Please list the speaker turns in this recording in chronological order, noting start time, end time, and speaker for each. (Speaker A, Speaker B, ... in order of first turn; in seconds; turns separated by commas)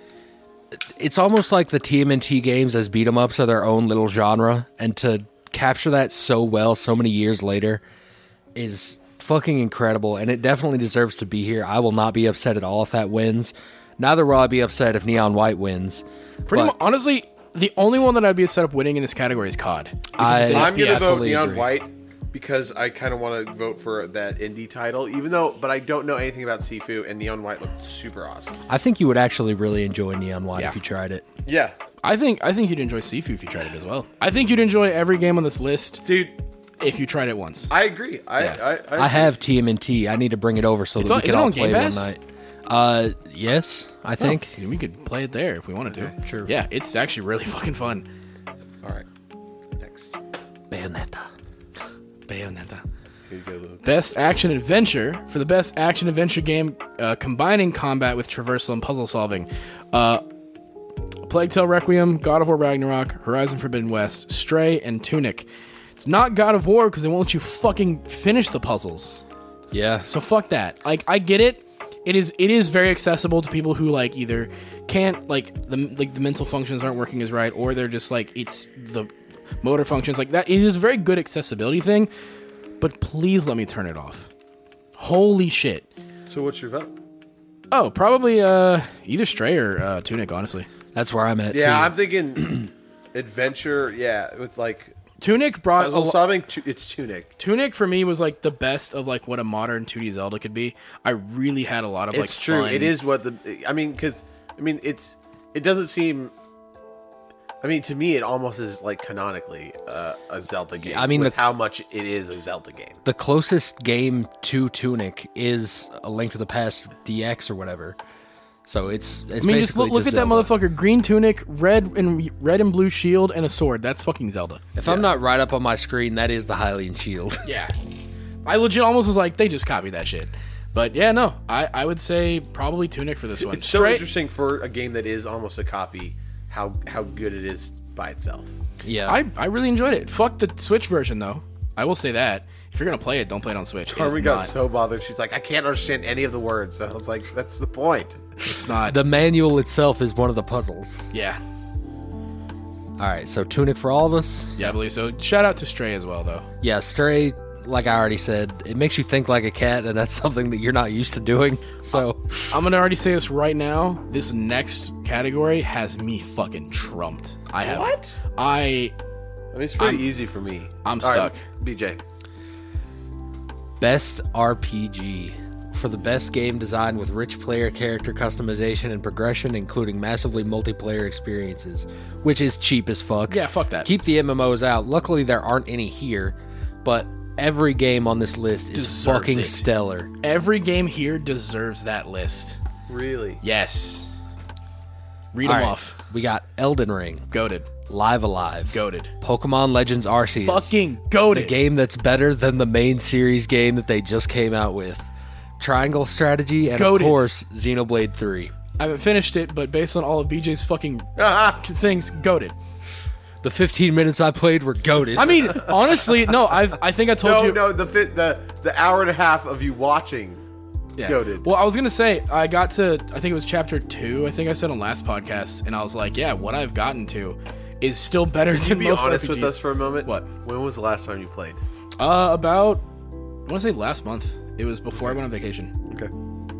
Speaker A: 0.7-7.8, Speaker A: 8.6-16.7, Speaker B: 16.5-21.2, Speaker A: 20.2-21.7, Speaker C: 20.3-28.6, Speaker A: 28.7-31.2, Speaker C: 31.4-31.8, Speaker B: 32.0-36.1, Speaker C: 36.0-36.3, Speaker B: 36.8-37.7, Speaker C: 37.7-39.3, Speaker A: 39.0-44.5, Speaker B: 41.0-42.1, Speaker B: 44.2-48.0, Speaker A: 46.2-46.5, Speaker C: 49.8-50.1, Speaker A: 50.7-51.3, Speaker B: 52.3-52.8, Speaker C: 53.3-53.8, Speaker B: 53.8-60.2, Speaker B: 61.2-69.2, Speaker A: 69.7-70.1, Speaker B: 70.0-82.1, Speaker B: 82.8-84.3, Speaker B: 85.0-85.9, Speaker C: 86.3-86.9, Speaker B: 87.7-90.7, Speaker A: 90.9-91.9, Speaker C: 91.5-95.0, Speaker B: 95.2-96.2, Speaker C: 95.8-97.3, Speaker B: 97.4-102.9, Speaker C: 102.1-106.3, Speaker C: 107.6-113.0, Speaker A: 110.8-111.4, Speaker A: 113.0-118.0, Speaker A: 118.6-120.5, Speaker B: 119.4-125.0, Speaker A: 124.8-127.5, Speaker B: 127.4-127.7, Speaker B: 128.4-134.1, Speaker C: 133.4-138.5, Speaker A: 138.8-139.2, Speaker B: 139.1-144.5, Speaker C: 143.9-148.3, Speaker B: 148.4-149.0, Speaker A: 148.8-151.1, Speaker B: 151.1-151.4, Speaker A: 153.0-154.7, Speaker B: 154.6-156.5, Speaker A: 156.6-162.4, Speaker B: 162.3-168.9, Speaker C: 167.6-168.2, Speaker C: 169.5-172.0, Speaker B: 169.8-170.1, Speaker B: 170.8-171.4, Speaker A: 173.8-190.1, Speaker B: 183.3-183.9, Speaker B: 188.7-189.7, Speaker B: 190.2-192.6, Speaker C: 192.9-193.4, Speaker B: 193.4-194.1, Speaker B: 195.3-196.0, Speaker A: 195.4-197.3, Speaker B: 197.3-197.7, Speaker A: 197.9-200.7, Speaker B: 198.7-199.1, Speaker B: 200.4-201.6, Speaker A: 201.3-205.1, Speaker A: 205.6-208.5, Speaker B: 206.7-207.2, Speaker B: 208.8-212.5, Speaker C: 211.2-211.6, Speaker A: 213.4-215.7, Speaker B: 215.1-217.6, Speaker C: 217.2-220.4, Speaker B: 221.0-230.3, Speaker C: 221.0-221.5, Speaker C: 228.5-231.6, Speaker B: 232.0-232.8, Speaker B: 233.5-235.7, Speaker C: 235.8-236.1